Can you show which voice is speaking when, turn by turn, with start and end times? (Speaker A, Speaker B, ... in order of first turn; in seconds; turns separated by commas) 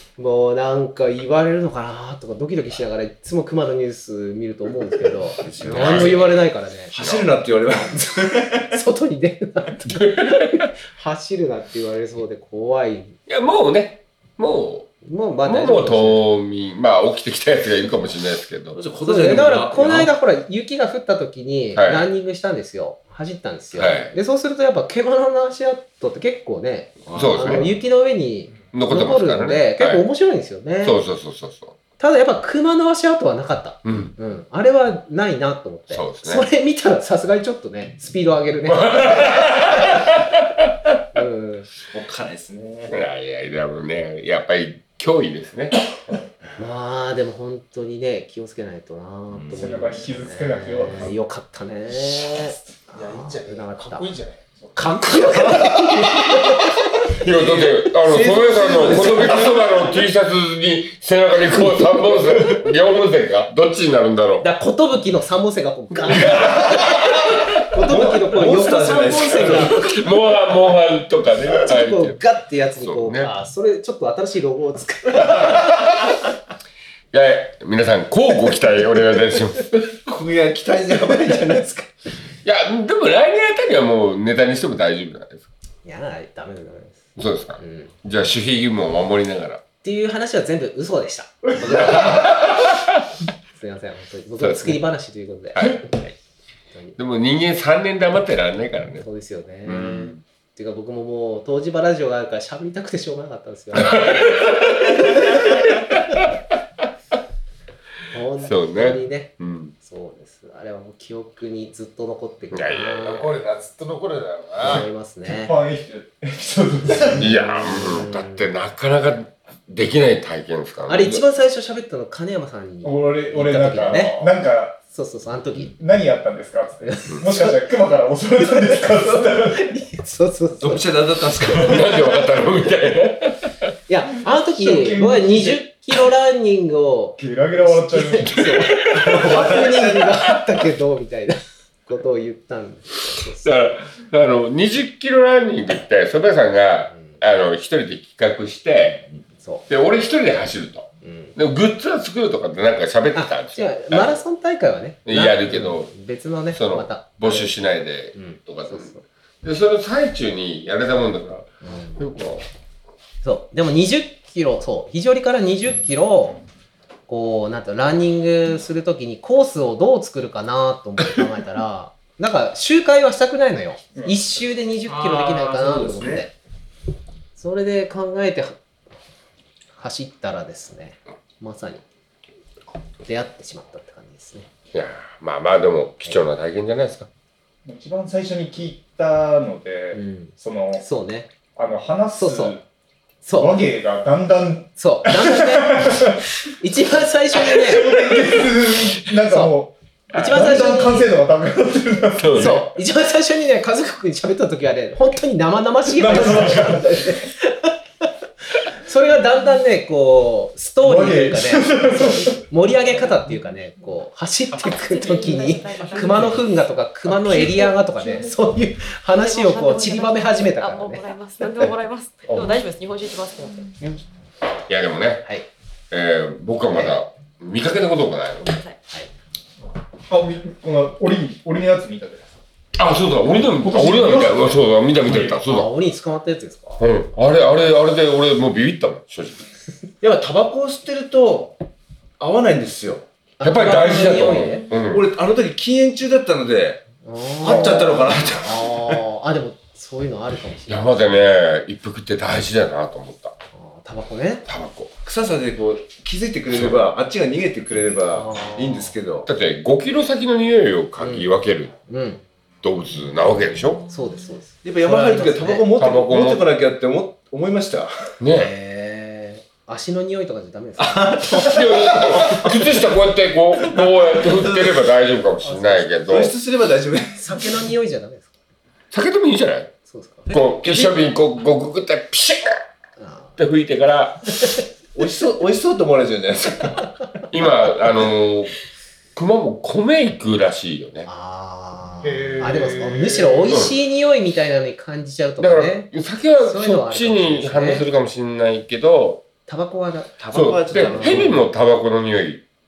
Speaker A: 0.2-6.9, Speaker B: 5.4-6.3, Speaker C: 5.6-6.4, Speaker B: 6.9-8.8, Speaker C: 7.0-7.3, Speaker A: 8.4-13.2, Speaker C: 9.8-10.6, Speaker C: 13.3-18.8, Speaker A: 15.0-16.2, Speaker B: 18.7-20.1, Speaker A: 19.0-31.0, Speaker C: 21.8-22.1, Speaker C: 23.7-24.1, Speaker B: 27.1-27.7, Speaker C: 27.1-27.7, Speaker C: 28.7-30.1, Speaker C: 30.8-31.8, Speaker A: 32.0-40.0, Speaker C: 33.8-34.1, Speaker C: 35.9-36.5, Speaker C: 38.7-40.1, Speaker A: 41.1-41.7, Speaker B: 41.9-43.0, Speaker C: 42.9-46.1, Speaker A: 46.6-54.1, Speaker B: 49.3-49.9, Speaker D: 49.5-51.1, Speaker E: 52.9-54.4, Speaker D: 54.6-55.0, Speaker A: 54.8-57.5, Speaker C: 57.1-64.5, Speaker B: 57.3-59.9, Speaker A: 58.9-59.2, Speaker B: 61.7-62.6, Speaker A: 64.4-69.9, Speaker B: 66.1-66.8, Speaker B: 67.8-69.8, Speaker C: 69.4-72.2, Speaker A: 71.6-75.7, Speaker C: 72.8-73.3, Speaker C: 77.1-79.8, Speaker B: 80.1-81.8, Speaker A: 81.3-81.8, Speaker C: 82.4-85.5, Speaker A: 85.8-87.1, Speaker C: 87.2-89.6, Speaker A: 87.6-87.9, Speaker A: 89.8-92.2, Speaker D: 91.5-92.3, Speaker C: 91.6-92.9, Speaker A: 93.5-95.8, Speaker C: 94.4-94.8, Speaker C: 95.5-96.1, Speaker C: 97.0-99.1, Speaker A: 99.0-104.3, Speaker C: 99.7-100.2, Speaker C: 103.8-105.6, Speaker A: 108.1-113.3, Speaker C: 108.4-109.7, Speaker C: 112.5-113.3, Speaker E: 113.0-114.9, Speaker A: 114.6-115.5, Speaker D: 115.2-117.5, Speaker A: 117.2-118.5, Speaker C: 117.2-121.2, Speaker A: 120.9-124.3, Speaker D: 122.8-124.8, Speaker A: 124.9-125.8, Speaker D: 125.7-129.8, Speaker A: 126.8-127.6, Speaker A: 128.4-130.9, Speaker B: 130.6-131.9, Speaker C: 131.6-133.5, Speaker A: 133.9-143.5, Speaker D: 134.5-135.7, Speaker D: 137.2-138.9, Speaker B: 138.9-140.2, Speaker C: 143.4-149.0, Speaker A: 146.9-147.2, Speaker A: 149.4-149.7, Speaker C: 149.7-154.2, Speaker A: 151.0-151.3, Speaker A: 153.1-157.6, Speaker C: 155.1-155.9, Speaker C: 156.5-158.9, Speaker A: 158.1-159.0, Speaker C: 159.4-162.5, Speaker A: 161.6-162.0, Speaker A: 163.2-166.4, Speaker A: 167.1-176.3, Speaker D: 174.0-174.3, Speaker B: 174.8-176.3, Speaker A: 177.4-178.6, Speaker A: 179.8-181.8, Speaker A: 183.0-184.5, Speaker C: 184.7-187.1, Speaker D: 187.7-190.8, Speaker A: 189.9-191.3, Speaker D: 191.6-192.6, Speaker A: 192.2-192.6, Speaker A: 193.2-193.6, Speaker D: 193.3-196.2, Speaker A: 194.8-197.9, Speaker D: 197.5-202.7, Speaker A: 199.3-199.6, Speaker A: 200.2-201.1, Speaker C: 200.2-200.5, Speaker C: 202.2-202.7, Speaker A: 202.4-207.7, Speaker D: 205.9-207.2, Speaker A: 208.7-221.1, Speaker D: 210.8-212.4, Speaker F: 214.5-216.5, Speaker D: 217.3-217.8, Speaker F: 219.1-223.8, Speaker D: 222.3-222.6, Speaker D: 223.8-224.0, Speaker C: 224.7-225.3, Speaker C: 225.9-228.5, Speaker A: 226.7-227.0, Speaker F: 228.4-228.8, Speaker D: 230.1-232.3, Speaker C: 232.8-235.7, Speaker D: 233.5-235.4, Speaker A: 235.3-236.8, Speaker C: 236.8-239.5, Speaker B: 240.0-241.6, Speaker B: 242.2-243.1, Speaker A: 243.4-244.7, Speaker C: 243.4-245.1, Speaker B: 244.8-246.8, Speaker A: 247.0-251.2, Speaker B: 247.4-249.0, Speaker C: 250.7-253.4, Speaker A: 253.5-254.5, Speaker C: 254.5-254.9, Speaker B: 255.0-259.3, Speaker C: 256.5-256.8, Speaker A: 258.1-258.9, Speaker C: 259.3-261.8, Speaker A: 261.0-261.3, Speaker A: 261.9-262.2, Speaker C: 262.6-263.8, Speaker A: 263.9-265.7, Speaker B: 264.6-267.9, Speaker C: 265.7-266.5, Speaker C: 268.2-268.5, Speaker A: 268.3-271.6, Speaker B: 270.8-272.7, Speaker C: 271.3-276.4, Speaker B: 273.6-274.8, Speaker B: 276.0-277.5, Speaker A: 277.2-278.3, Speaker C: 278.9-279.7, Speaker A: 279.9-280.3, Speaker B: 280.3-280.9, Speaker C: 280.3-282.6, Speaker A: 283.0-283.4, Speaker C: 283.4-284.5, Speaker B: 284.9-286.9, Speaker C: 287.3-288.5, Speaker C: 289.1-291.1, Speaker A: 291.1-297.9, Speaker E: 292.0-293.6, Speaker C: 293.5-293.8, Speaker C: 295.4-299.3, Speaker A: 299.5-301.4, Speaker B: 300.2-301.4, Speaker C: 300.3-302.4